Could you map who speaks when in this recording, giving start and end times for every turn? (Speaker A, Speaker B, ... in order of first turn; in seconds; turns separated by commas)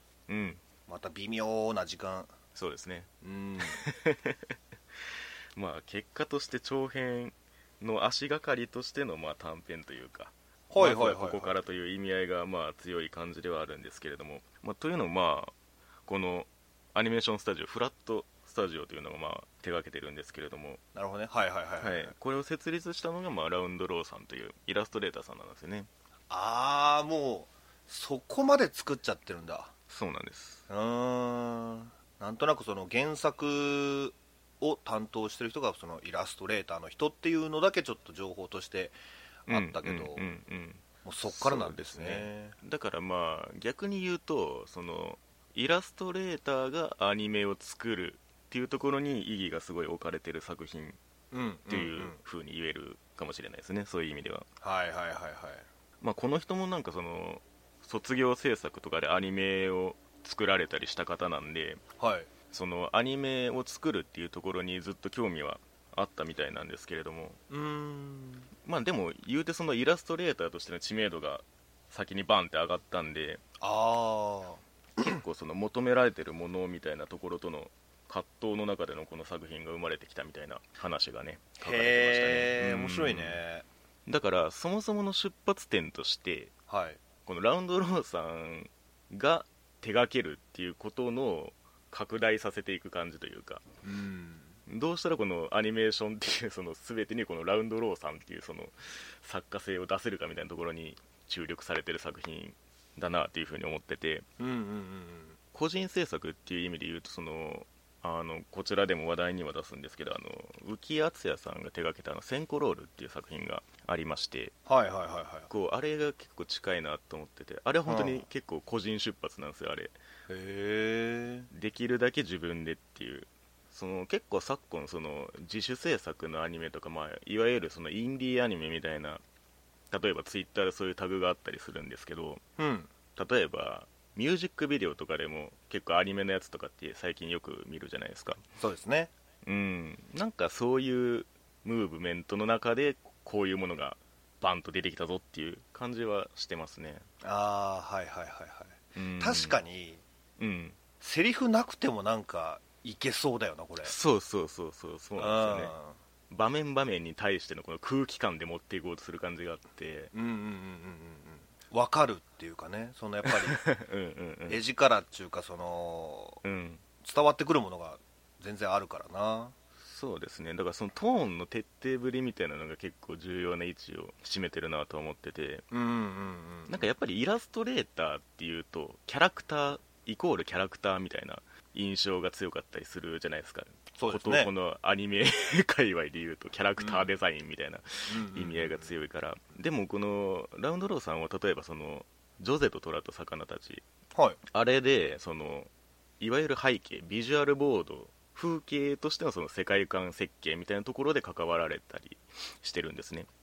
Speaker A: 0.3-0.6, Speaker B: 0.9-2.3, Speaker A: 2.5-4.5, Speaker B: 3.2-3.8, Speaker A: 5.6-15.5, Speaker B: 10.7-11.6, Speaker A: 16.1-20.8, Speaker B: 20.9-22.1, Speaker A: 21.8-25.9, Speaker B: 26.3-29.7, Speaker A: 29.9-30.6, Speaker B: 30.7-40.3, Speaker A: 39.5-51.0, Speaker B: 41.0-42.6, Speaker B: 51.3-52.2, Speaker A: 51.7-54.5, Speaker B: 54.6-55.7, Speaker A: 56.0-61.8, Speaker B: 62.0-62.3, Speaker A: 62.5-67.4, Speaker B: 67.5-68.5, Speaker A: 68.6-73.4, Speaker B: 73.6-75.2, Speaker A: 75.0-83.4, Speaker B: 81.6-83.7, Speaker A: 84.1-86.5, Speaker B: 86.7-87.0, Speaker A: 87.2-93.7, Speaker B: 93.8-94.6, Speaker A: 94.7-104.3, Speaker B: 104.4-105.4, Speaker A: 105.5-114.5, Speaker B: 114.7-115.5, Speaker A: 115.5-120.0, Speaker B: 117.9-118.3, Speaker B: 120.3-121.5, Speaker A: 121.5-129.2, Speaker A: 129.9-132.4, Speaker B: 132.6-132.9, Speaker A: 133.2-138.4, Speaker B: 138.6-139.1, Speaker A: 139.4-147.1, Speaker B: 147.2-150.0, Speaker A: 149.0-149.6, Speaker A: 150.4-150.8, Speaker B: 151.0-153.9, Speaker A: 153.8-155.7, Speaker B: 155.2-156.0, Speaker A: 156.3-160.1, Speaker B: 160.1-163.6, Speaker A: 163.2-164.6, Speaker B: 164.5-166.4, Speaker A: 166.4-166.8, Speaker B: 167.0-169.5, Speaker A: 169.8-175.7, Speaker B: 175.7-176.9, Speaker A: 176.7-193.8, Speaker B: 184.0-184.5, Speaker B: 186.8-187.1, Speaker B: 188.1-188.9, Speaker A: 194.5-203.3